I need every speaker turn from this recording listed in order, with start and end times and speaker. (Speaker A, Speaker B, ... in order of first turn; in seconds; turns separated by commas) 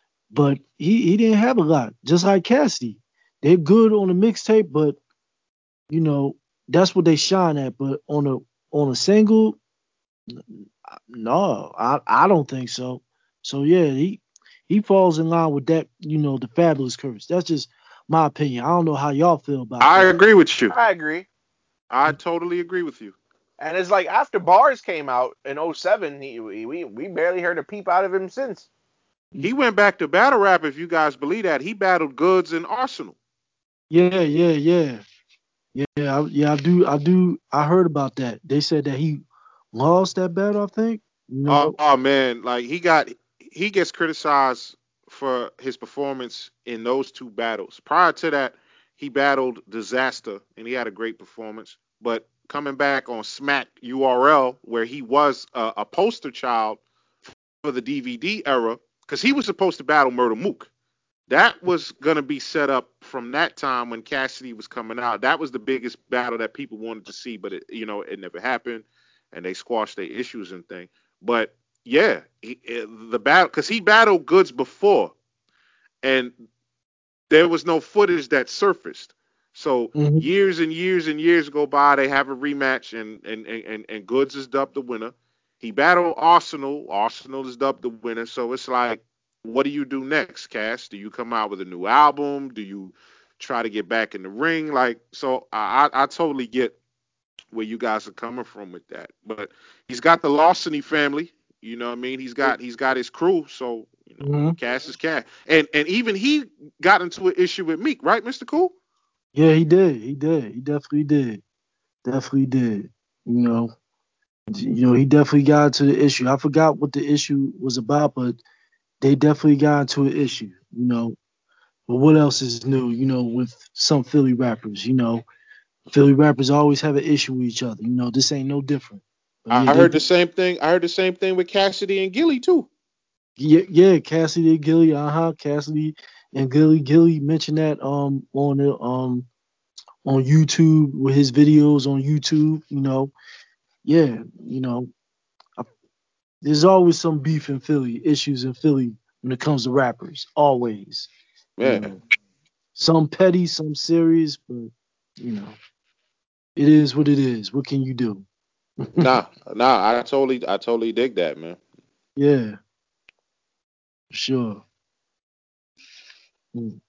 Speaker A: 0.3-5.0, Speaker A: 5.9-9.6, Speaker A: 10.3-20.1, Speaker B: 19.8-20.7, Speaker C: 20.7-21.3, Speaker B: 21.9-23.1, Speaker C: 23.6-28.7, Speaker B: 29.4-33.2, Speaker A: 33.9-35.0, Speaker A: 35.7-41.7, Speaker B: 41.5-56.8, Speaker B: 57.6-60.7, Speaker B: 61.3-75.1, Speaker B: 76.0-76.3, Speaker B: 77.3-96.8, Speaker A: 79.9-80.2, Speaker B: 97.5-108.7, Speaker A: 104.2-104.5, Speaker A: 109.3-111.4, Speaker A: 112.0-113.7, Speaker A: 114.5-118.4, Speaker A: 119.0-121.2, Speaker A: 121.9-125.2, Speaker A: 125.9-129.9, Speaker B: 129.5-132.7, Speaker A: 133.4-139.3, Speaker A: 140.0-143.1, Speaker A: 143.8-144.9, Speaker A: 146.4-151.1, Speaker B: 151.6-151.9, Speaker A: 151.6-152.0, Speaker A: 152.8-155.6, Speaker A: 156.6-158.2, Speaker A: 158.8-159.1, Speaker B: 159.0-161.6, Speaker A: 162.2-162.6, Speaker A: 164.1-164.6, Speaker A: 166.5-166.8